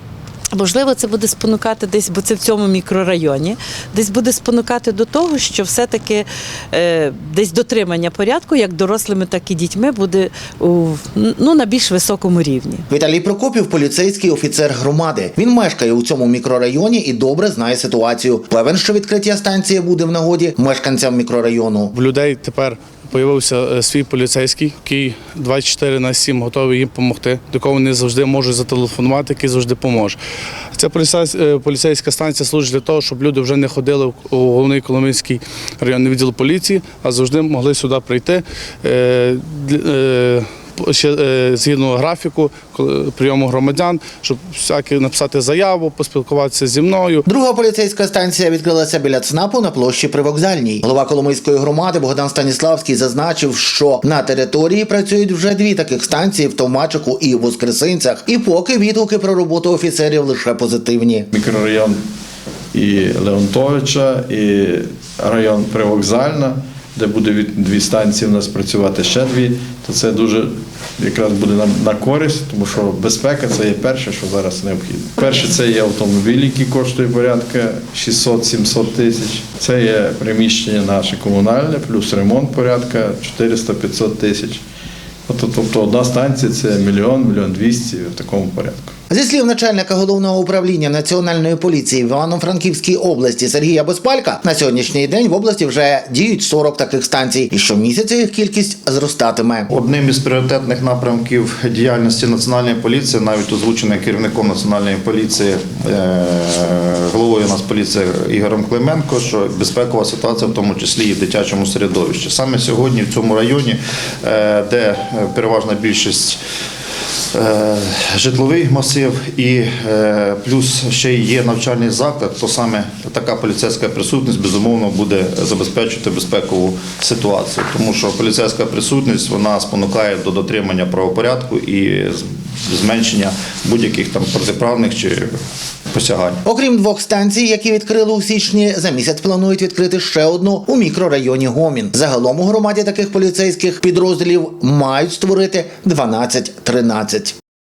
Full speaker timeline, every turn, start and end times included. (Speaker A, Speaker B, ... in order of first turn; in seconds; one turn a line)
Speaker A: 0.5-12.8
Speaker B: 12.9-21.9
Speaker C: 21.9-30.2
Speaker C: 30.8-47.2
Speaker B: 47.3-61.3
Speaker D: 61.3-62.0
Speaker D: 62.7-84.6
Speaker D: 85.3-88.9
Speaker B: 89.1-99.7
Speaker E: 99.7-116.4
Speaker E: 117.3-135.4
Speaker E: 135.9-136.4
Speaker B: 136.4-147.3